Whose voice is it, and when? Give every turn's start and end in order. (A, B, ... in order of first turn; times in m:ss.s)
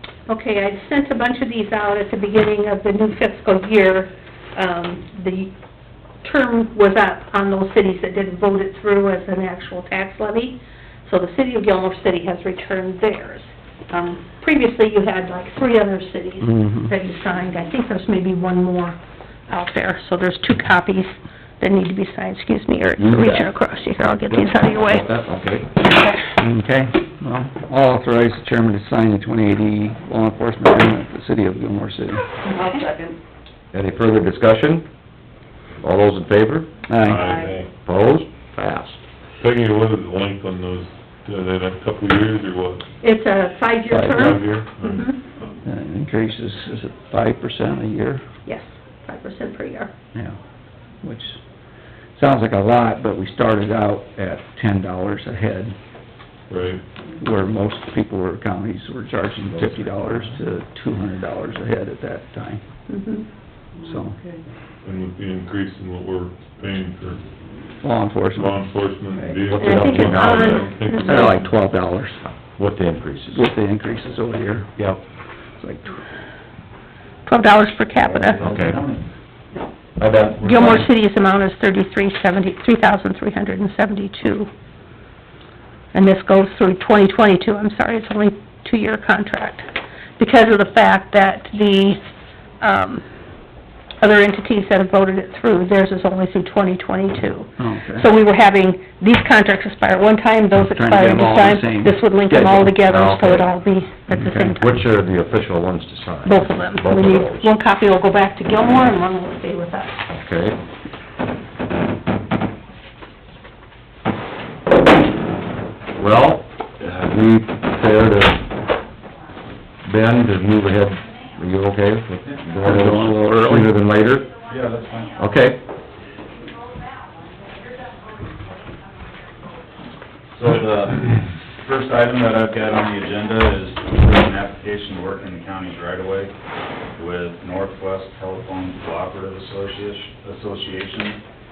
0:00.3-0:05.5 A
0:06.2-0:25.0 A
0:16.4-0:16.8 B
0:23.0-0:23.5 C
0:24.3-0:25.7 C
0:26.4-0:32.2 B
0:32.5-0:33.1 A
0:33.7-0:34.8 C
0:35.8-0:36.7 C
0:36.9-0:37.3 B
0:37.0-0:37.7 D
0:37.8-0:39.0 C
0:39.4-0:42.9 D
0:43.0-0:45.2 A
0:43.9-0:44.4 B
0:44.1-0:45.5 D
0:45.6-0:48.2 B
0:48.4-0:49.9 A
0:51.0-0:51.4 B
0:52.2-0:55.8 B
0:56.5-0:56.8 D
0:57.2-1:02.6 B
0:59.5-0:59.8 C
1:02.9-1:03.3 A
1:03.8-1:04.2 B
1:04.8-1:07.2 D
1:07.8-1:08.6 B
1:08.3-1:11.5 D
1:09.5-1:10.6 C
1:09.6-1:11.4 A
1:11.0-1:12.3 B
1:12.6-1:13.4 C
1:13.3-1:14.8 B
1:15.6-1:16.0 B
1:17.2-1:18.5 A
1:18.0-1:19.0 E
1:18.4-1:18.8 C
1:20.0-1:20.8 C
1:20.4-1:24.5 A
1:25.9-1:32.0 A
1:32.6-1:33.0 A
1:34.0-1:44.8 A
1:37.6-1:38.1 B
1:40.6-1:42.7 B
1:42.3-1:43.5 C
1:44.1-1:44.5 B
1:44.5-1:47.5 C
1:46.2-1:50.0 A
1:50.1-1:50.6 C
1:56.0-1:58.5 C
1:59.8-2:04.3 C
2:02.2-2:02.7 E
2:02.6-2:03.7 B
2:04.4-2:05.1 E
2:05.2-2:05.6 C
2:10.3-2:16.3 E
2:17.0-2:21.2 E